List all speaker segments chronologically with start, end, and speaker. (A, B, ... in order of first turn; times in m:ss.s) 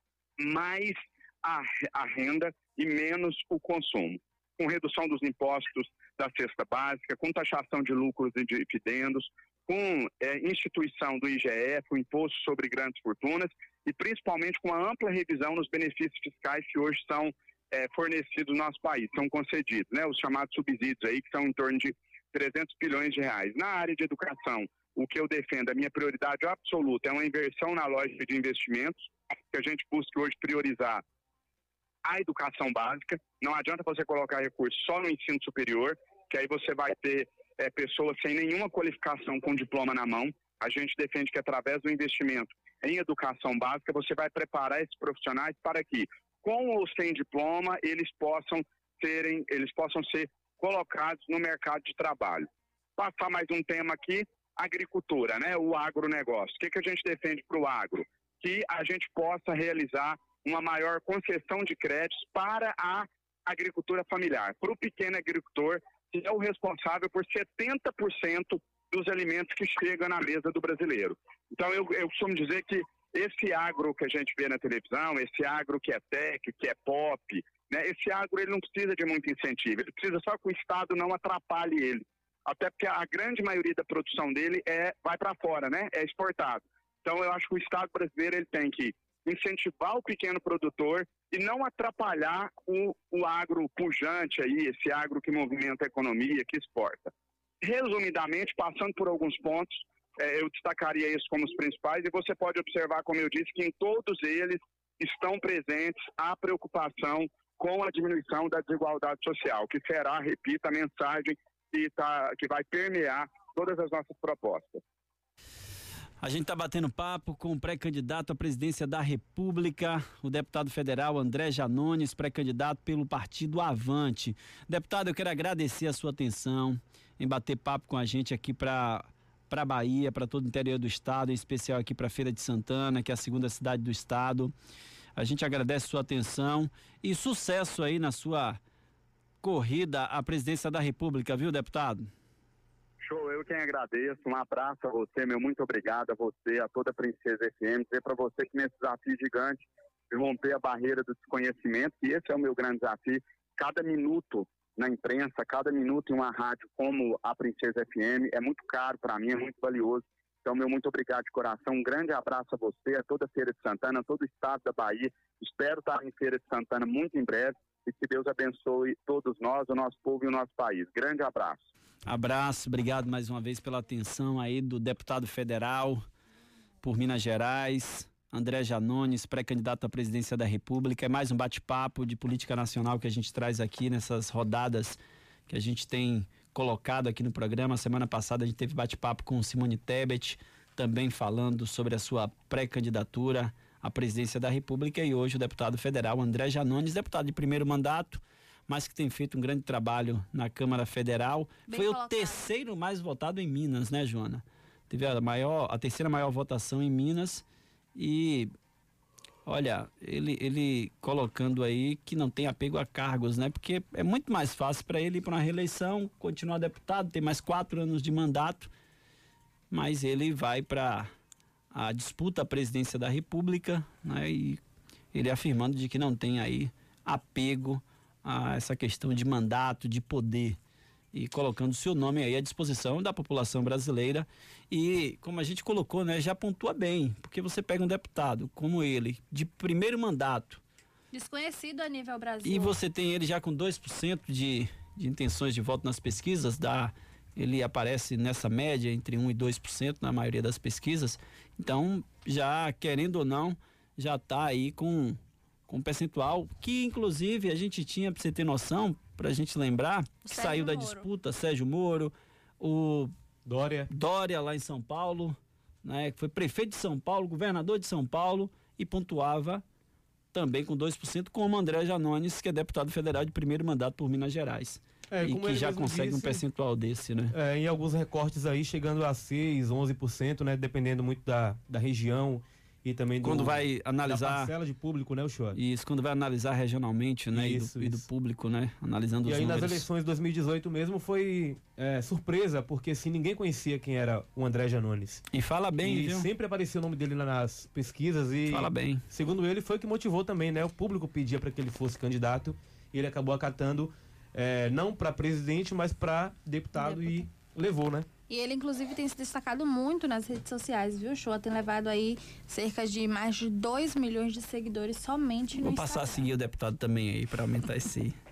0:00.4-0:31.0 A
0:32.0-1:37.1 A
1:37.6-1:54.8 A
1:56.2-2:14.5 B
2:15.2-2:18.6 B
2:19.4-2:22.1 B
2:23.0-2:51.6 A
2:52.1-2:56.0 B
2:56.8-3:27.4 B
3:21.7-3:22.5 C
3:28.0-3:28.5 B
3:29.5-3:38.7 B
3:39.7-3:41.1 B
3:41.7-3:44.6 B
3:45.1-3:50.6 B
3:51.1-4:00.6 B
4:01.1-4:02.8 C
4:02.4-4:23.1 B
4:20.3-4:21.0 C
4:23.4-4:23.9 D
4:23.9-4:29.6 B
4:30.3-4:37.4 B
4:35.1-4:36.4 D
4:37.3-4:45.6 D
4:43.2-4:44.5 B
4:45.6-4:49.9 B
4:47.3-4:48.1 D
4:49.2-4:55.2 D
4:55.3-4:56.3 B
4:55.8-5:08.1 D
4:58.5-4:59.1 B
5:06.8-5:07.2 C
5:08.3-5:16.3 C
5:15.6-5:18.2 B